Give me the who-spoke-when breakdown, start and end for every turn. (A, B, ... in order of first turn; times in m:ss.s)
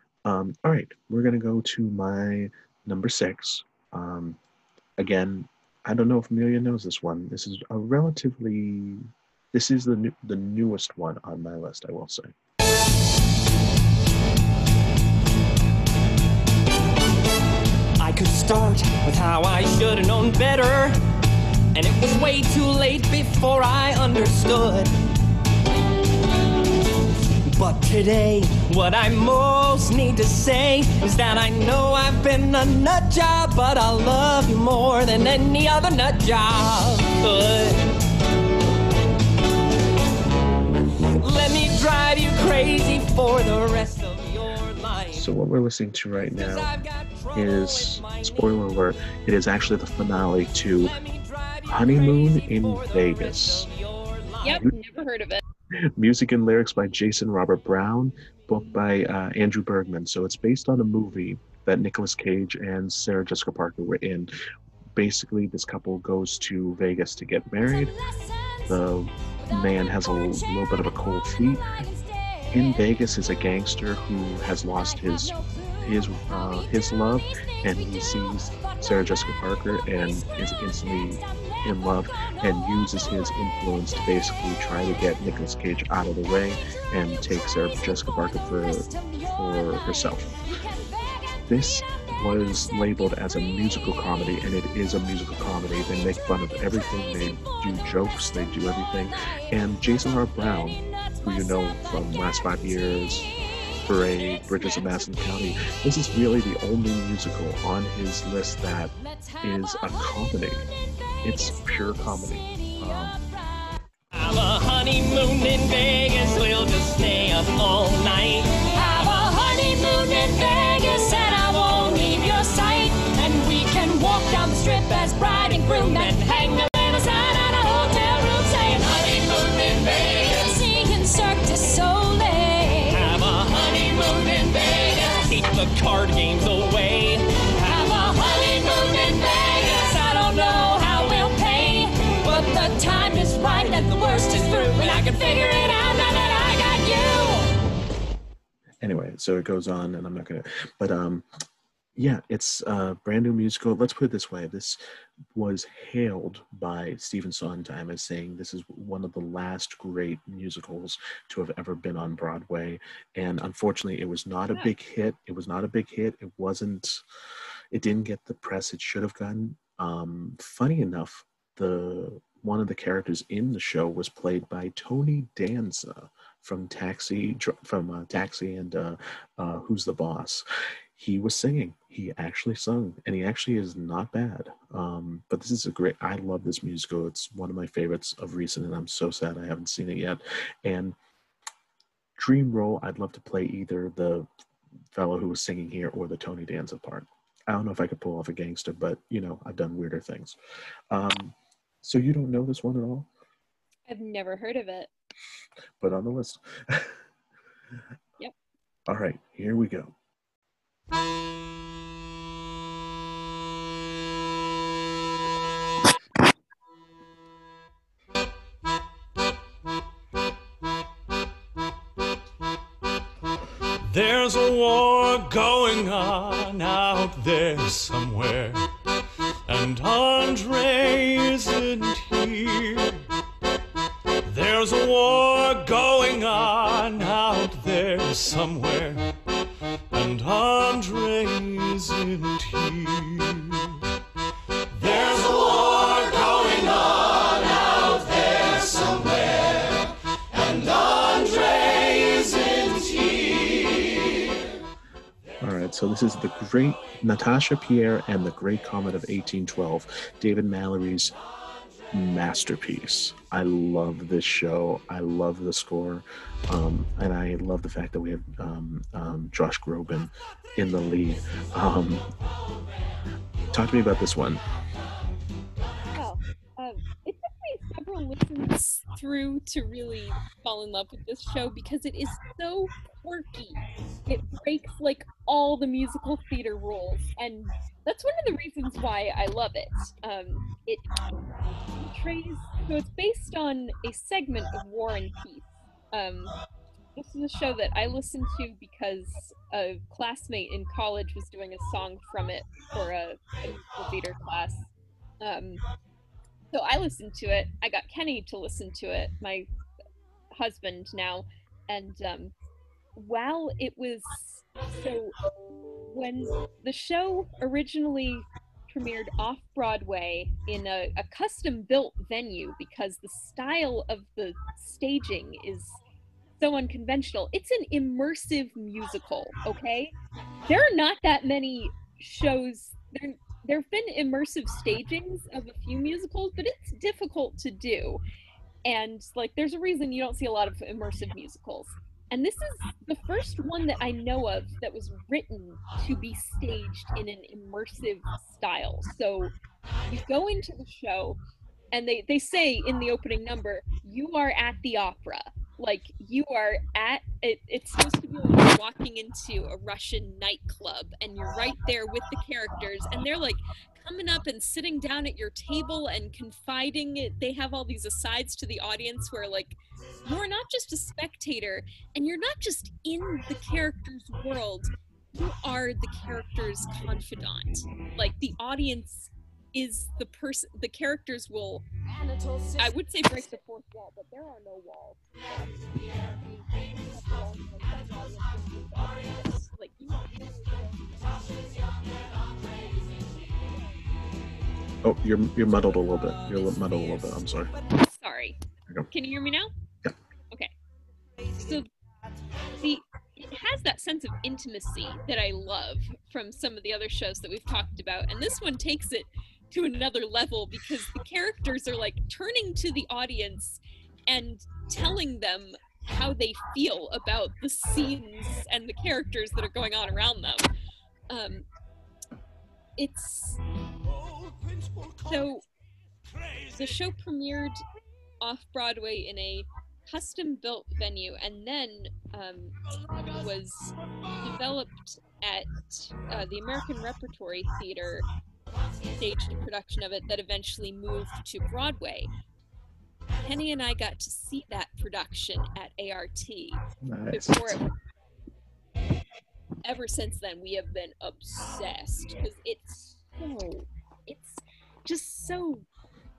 0:00.2-0:04.4 A
0:05.0-0:12.3 A
0:18.0-0:21.0 B
0:21.7-0:24.9 B
0:27.5-0:37.8 B
0:41.2-0:45.3 B
0:45.1-0:46.8 A
0:46.4-0:48.5 B
0:47.3-0:51.0 A
0:50.8-0:54.6 B
0:51.6-0:53.7 A
0:54.4-0:55.4 C
0:54.5-0:54.8 A
0:56.0-1:04.3 A
1:05.0-1:08.0 A
1:08.7-1:11.8 A
1:12.5-1:30.4 A
1:31.5-1:43.3 A
1:43.8-1:50.7 A
1:51.2-1:53.2 A
1:54.1-1:58.6 B
1:58.6-2:13.2 D
2:13.0-2:17.3 B
2:17.6-2:27.5 D
2:28.8-2:31.3 A
2:32.0-2:34.8 A
2:35.3-2:47.0 A
2:47.7-3:00.4 A
3:01.0-3:11.0 A
3:12.2-3:14.3 A
3:14.9-3:20.4 A
3:20.9-3:23.1 A
3:23.9-3:24.9 C
3:25.8-3:27.0 A
3:28.9-3:29.9 A
3:43.8-3:48.6 E
3:49.5-3:53.0 E
3:54.2-3:59.1 E
3:59.9-4:03.6 E
4:04.7-4:07.0 E
4:08.2-4:09.1 E
4:15.4-4:21.2 A
4:21.9-4:32.1 A
4:33.5-4:34.4 A
4:35.9-4:50.9 C
4:51.8-4:56.3 C
4:57.0-5:04.7 C
5:05.2-5:05.6 C
5:06.5-5:09.5 C
5:10.3-5:12.3 C
5:13.0-5:15.2 C
5:15.9-5:25.8 C
5:26.4-5:29.9 C
5:30.5-5:38.0 C
5:38.6-5:49.3 C
5:49.9-5:51.2 C
5:51.7-6:21.6 C
6:22.6-6:25.0 C
6:26.9-6:30.6 C
6:34.8-6:37.5 A
6:37.8-6:38.4 C
6:38.9-6:39.5 C
6:41.4-6:41.7 C
6:42.6-7:00.5 C
7:01.1-7:01.5 C
7:02.8-7:03.4 C
7:05.1-7:05.4 C
7:06.5-7:07.6 C
7:08.2-7:12.6 C
7:13.1-7:18.1 C
7:19.0-7:22.1 C
7:23.2-7:27.6 C
7:26.8-7:27.7 A
7:29.6-7:35.6 C